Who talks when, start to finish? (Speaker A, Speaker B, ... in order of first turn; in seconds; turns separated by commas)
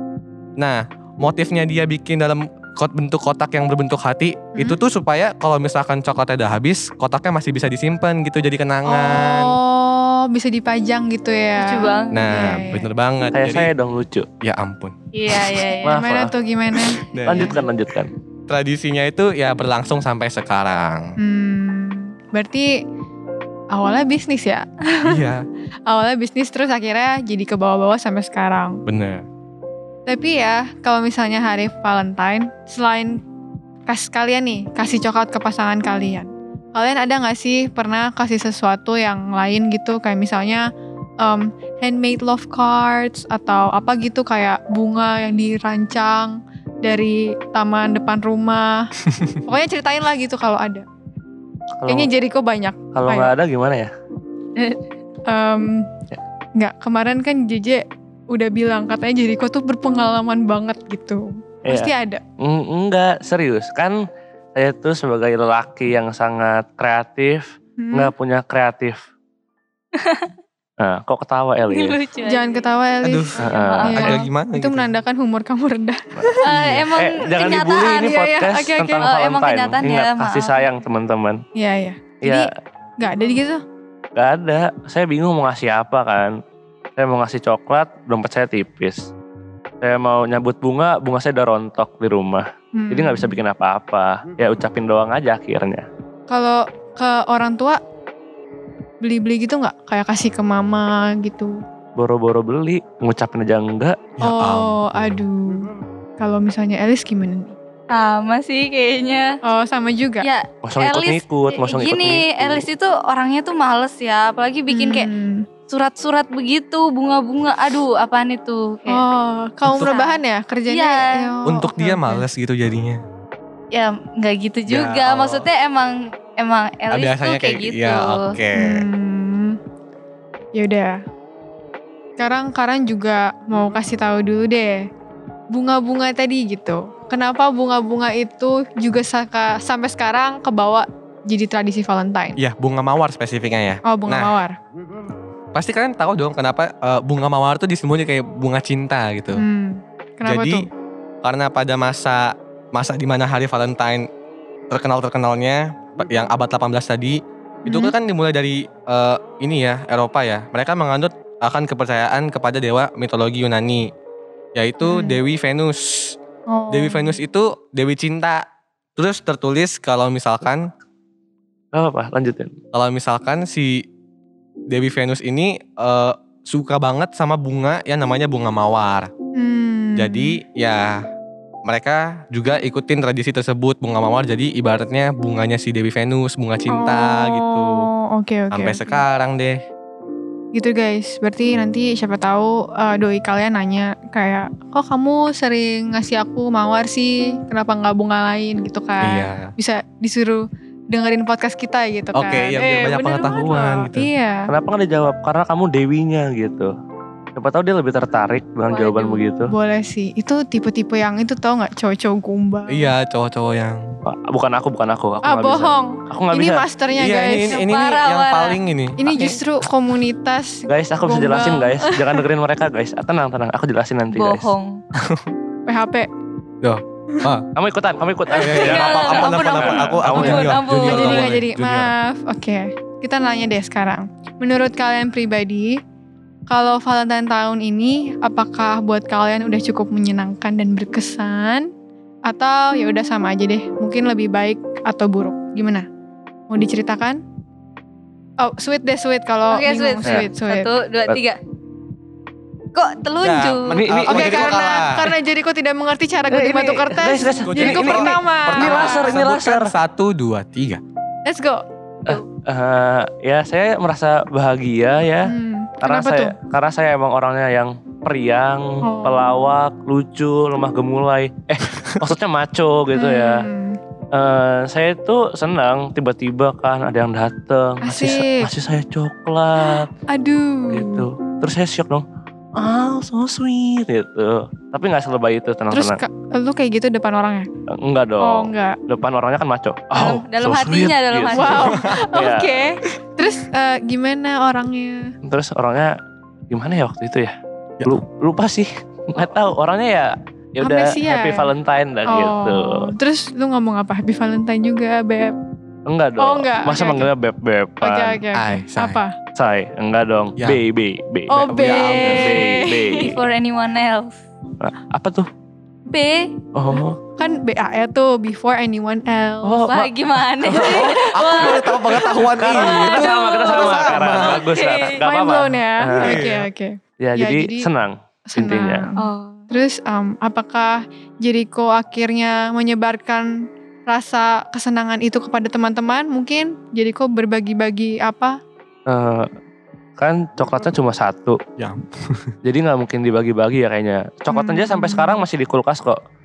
Speaker A: 0.6-9.6, Speaker B: 8.8-12.9, Speaker C: 11.6-12.3, Speaker A: 12.1-13.7, Speaker D: 13.3-14.3, Speaker A: 14.4-14.9, Speaker C: 15.1-16.1, Speaker D: 15.8-16.3, Speaker B: 15.9-17.6, Speaker A: 17.1-17.6, Speaker D: 17.2-18.1, Speaker A: 18.5-21.1, Speaker B: 21.2-22.8, Speaker B: 23.7-25.2, Speaker A: 25.0-25.4, Speaker B: 25.9-28.8, Speaker A: 28.9-29.2, Speaker B: 30.1-33.2, Speaker B: 33.9-40.6, Speaker B: 41.2-48.9, Speaker B: 49.5-50.8, Speaker D: 51.8-52.1, Speaker B: 51.9-53.3, Speaker D: 52.9-53.9, Speaker B: 55.3-55.9, Speaker B: 56.6-62.2, Speaker D: 61.6-64.0, Speaker D: 64.5-69.0, Speaker B: 67.8-68.1, Speaker C: 70.0-70.3, Speaker D: 70.8-72.0, Speaker C: 71.7-72.7, Speaker B: 72.2-76.4, Speaker A: 73.0-73.4, Speaker D: 73.4-73.9, Speaker C: 73.5-74.2, Speaker A: 73.9-74.9, Speaker D: 76.2-81.4, Speaker C: 76.4-78.4, Speaker B: 78.2-79.0, Speaker C: 79.0-80.7, Speaker B: 81.5-83.6, Speaker D: 82.2-82.5, Speaker D: 84.2-86.4, Speaker D: 87.0-89.1, Speaker D: 89.8-95.8, Speaker B: 92.8-93.4, Speaker B: 96.3-97.8, Speaker B: 99.0-101.5, Speaker D: 102.0-104.1, Speaker A: 104.2-104.8, Speaker B: 104.2-107.5, Speaker C: 107.9-109.3, Speaker B: 109.4-110.3, Speaker C: 110.2-115.1, Speaker D: 110.6-112.7, Speaker B: 114.7-115.5, Speaker C: 115.7-119.0, Speaker B: 118.9-122.2, Speaker C: 119.8-121.3, Speaker A: 121.4-123.0, Speaker C: 123.7-128.3, Speaker A: 124.7-125.5, Speaker A: 126.9-128.8, Speaker B: 128.6-129.6, Speaker B: 130.6-131.0, Speaker B: 132.2-134.8, Speaker B: 135.5-142.4, Speaker A: 142.4-144.3, Speaker B: 143.8-144.6, Speaker A: 145.5-149.4, Speaker B: 149.3-150.7, Speaker A: 150.2-150.6, Speaker A: 151.2-154.1, Speaker A: 154.7-163.9, Speaker B: 157.7-157.9, Speaker A: 164.6-166.2, Speaker B: 164.8-165.2, Speaker B: 166.5-167.2, Speaker A: 166.7-168.4, Speaker A: 169.0-170.7, Speaker D: 171.7-172.5, Speaker A: 172.7-173.8, Speaker A: 174.7-179.1, Speaker B: 179.3-180.3, Speaker A: 180.0-181.0, Speaker A: 181.6-187.9, Speaker B: 186.7-189.0, Speaker A: 188.5-189.6, Speaker B: 190.5-204.5, Speaker A: 199.0-199.5, Speaker A: 202.1-204.1, Speaker D: 204.5-206.7, Speaker D: 207.3-209.5, Speaker C: 208.7-209.2, Speaker B: 209.5-212.9, Speaker A: 212.7-214.0, Speaker D: 214.1-216.6, Speaker B: 215.2-217.6, Speaker A: 216.9-219.3, Speaker C: 217.2-218.6, Speaker B: 219.0-222.2, Speaker D: 220.7-224.5, Speaker C: 224.1-224.8, Speaker A: 225.0-225.3, Speaker B: 225.7-226.1, Speaker A: 226.6-227.5, Speaker D: 227.5-230.7, Speaker A: 228.3-231.9, Speaker C: 228.3-231.4, Speaker B: 230.3-235.8, Speaker B: 236.5-241.7, Speaker B: 242.3-245.8, Speaker B: 246.5-247.2, Speaker B: 248.4-250.7, Speaker C: 249.5-251.4, Speaker C: 252.7-253.8, Speaker A: 253.2-255.1, Speaker D: 253.7-254.6, Speaker B: 254.1-259.2, Speaker D: 256.3-259.7, Speaker A: 257.4-260.8, Speaker B: 261.2-261.6, Speaker D: 262.1-273.4, Speaker B: 265.2-266.3, Speaker B: 268.8-269.4, Speaker B: 272.9-273.8, Speaker D: 274.1-279.9, Speaker B: 277.8-278.5, Speaker B: 280.1-281.1, Speaker D: 280.7-282.0, Speaker D: 282.6-286.0, Speaker B: 285.7-287.5, Speaker D: 287.7-292.5, Speaker B: 288.2-288.8, Speaker C: 289.9-291.8, Speaker B: 291.3-295.1, Speaker A: 291.6-292.0, Speaker D: 295.2-295.9, Speaker D: 296.5-302.9, Speaker B: 300.6-301.5, Speaker B: 302.1-305.3, Speaker D: 305.9-308.2, Speaker B: 306.2-307.1, Speaker B: 307.8-309.1, Speaker A: 308.3-309.0, Speaker D: 309.4-313.2, Speaker B: 311.3-313.0, Speaker A: 311.4-312.5, Speaker C: 312.9-314.2, Speaker D: 314.6-315.3, Speaker C: 315.9-316.3, Speaker D: 316.5-317.0, Speaker B: 317.2-319.7, Speaker D: 319.4-321.1, Speaker C: 319.7-325.0, Speaker A: 320.7-324.4, Speaker D: 322.2-326.3, Speaker B: 325.0-327.7, Speaker A: 326.0-326.5, Speaker D: 327.0-328.9, Speaker B: 328.3-328.9, Speaker C: 329.0-329.4, Speaker B: 329.5-338.4, Speaker D: 338.9-339.3, Speaker D: 340.0-341.4, Speaker A: 341.6-342.3, Speaker D: 342.4-346.0, Speaker B: 344.3-345.2